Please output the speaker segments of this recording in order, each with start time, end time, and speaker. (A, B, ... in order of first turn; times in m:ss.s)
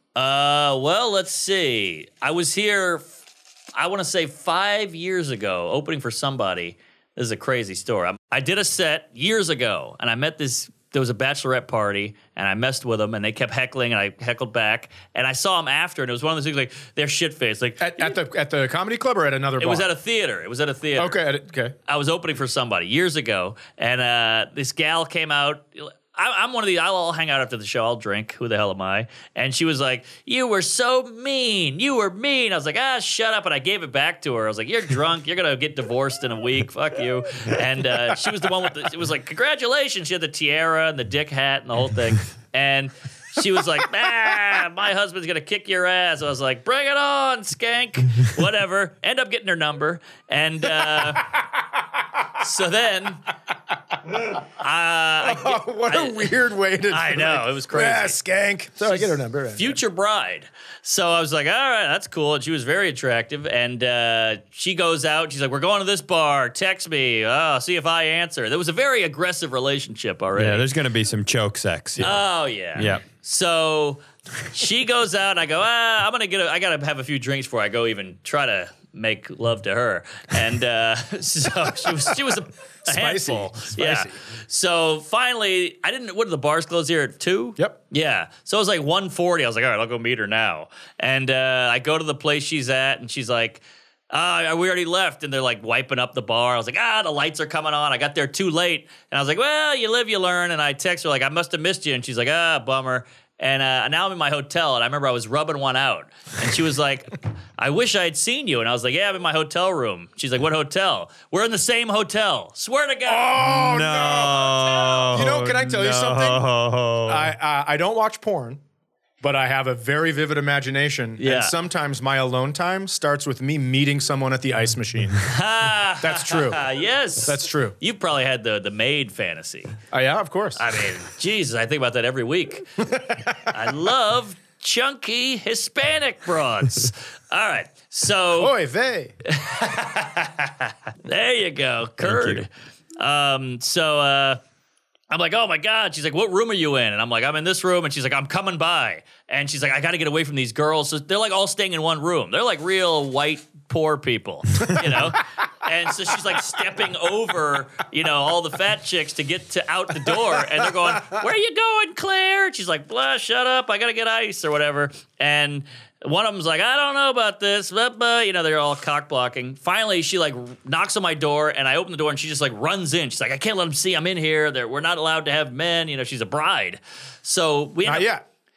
0:00.2-0:03.1 A
0:03.8-0:18.2 A
0:17.8-0:19.9 B
0:19.6-0:21.2 A
0:21.0-0:21.8 B
0:21.9-0:51.3 A
0:50.8-0:51.4 B
0:52.4-0:53.2 A
0:54.6-0:56.3 A
0:55.2-0:59.8 B
0:56.9-0:58.2 A
0:58.8-1:10.7 A
1:10.3-1:12.2 C
1:12.0-1:53.4 A
1:12.7-1:13.0 C
1:22.8-1:24.2 B
1:53.0-1:54.5 B
1:53.4-1:57.3 C
1:54.3-1:55.3 A
1:55.1-1:56.4 B
1:57.0-1:58.6 B
1:59.2-2:05.3 B
2:01.2-2:01.5 A
2:05.2-2:09.8 A
2:06.0-2:06.6 B
2:07.2-2:07.8 B
2:09.9-2:10.6 B
2:10.6-2:12.6 A
2:12.8-2:13.6 B
2:13.5-2:18.5 A
2:18.4-2:19.1 B
2:19.3-2:24.4 A
2:22.0-2:22.4 C
2:25.1-2:58.1 A
2:57.8-2:58.2 B